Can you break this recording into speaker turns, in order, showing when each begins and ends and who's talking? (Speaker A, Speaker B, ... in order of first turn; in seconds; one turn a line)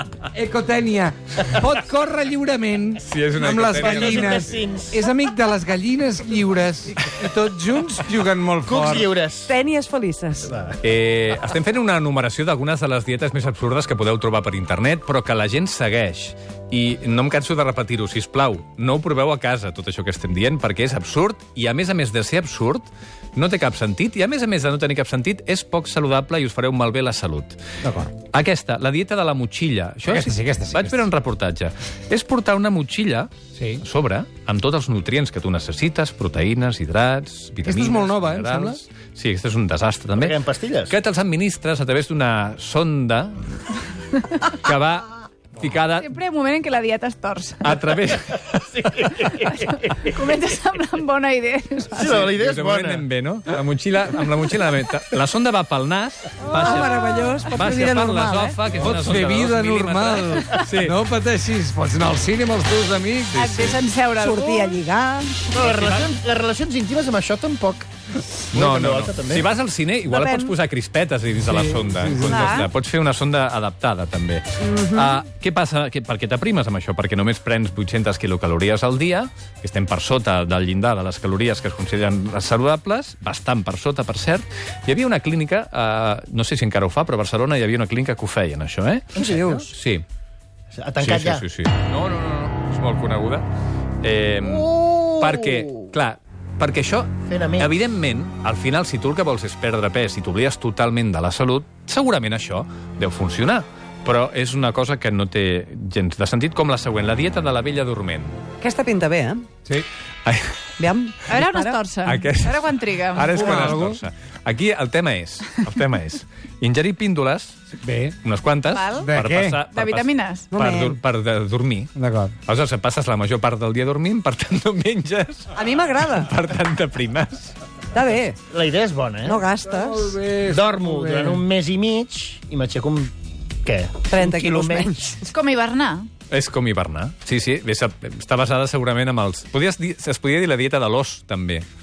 Speaker A: 0.3-9.1
Speaker B: 3.0-4.6
Speaker C: 3.8-5.1
Speaker C: 8.6-9.5
Speaker D: 9.5-10.6
Speaker C: 10.5-10.8
Speaker B: 10.8-27.6
Speaker A: 27.8-28.1
Speaker B: 28.3-43.4
Speaker A: 30.1-31.1
Speaker A: 33.6-33.8
Speaker A: 37.6-38.8
Speaker C: 40.2-41.0
Speaker B: 44.5-46.1
Speaker E: 45.9-47.8
Speaker B: 47.6-49.3
Speaker C: 48.7-50.3
Speaker E: 49.4-52.3
Speaker C: 52.0-53.0
Speaker B: 52.0-61.0
Speaker D: 56.4-58.6
Speaker A: 58.7-63.6
Speaker B: 63.3-63.8
Speaker E: 63.3-65.0
Speaker D: 64.2-65.4
Speaker C: 65.5-67.9
Speaker B: 65.6-66.1
Speaker C: 68.5-69.5
Speaker B: 68.5-89.2
Speaker D: 70.1-70.6
Speaker A: 71.4-72.5
Speaker D: 72.2-72.7
Speaker D: 74.6-75.2
Speaker C: 89.2-89.7
Speaker D: 89.2-89.7
Speaker B: 89.7-90.0
Speaker C: 90.7-91.5
Speaker B: 91.0-93.5
Speaker B: 94.0-108.4
Speaker C: 94.4-95.9
Speaker C: 97.3-97.7
Speaker D: 108.6-109.5
Speaker B: 110.2-110.5
Speaker D: 110.8-111.8
Speaker E: 111.3-113.7
Speaker B: 112.0-117.6
Speaker A: 113.2-114.0
Speaker A: 117.7-118.2
Speaker B: 118.2-121.9
Speaker E: 118.7-119.1
Speaker A: 119.0-119.6
Speaker E: 119.7-120.5
Speaker D: 120.5-121.0
Speaker A: 122.0-122.4
Speaker B: 122.5-125.5
Speaker D: 125.5-126.3
Speaker B: 126.1-127.5
Speaker D: 127.9-128.4
Speaker C: 128.5-129.4
Speaker D: 129.2-130.2
Speaker A: 129.7-131.4
Speaker C: 130.4-133.1
Speaker C: 133.6-135.0
Speaker D: 134.1-135.3
Speaker E: 135.3-136.1
Speaker B: 136.3-141.7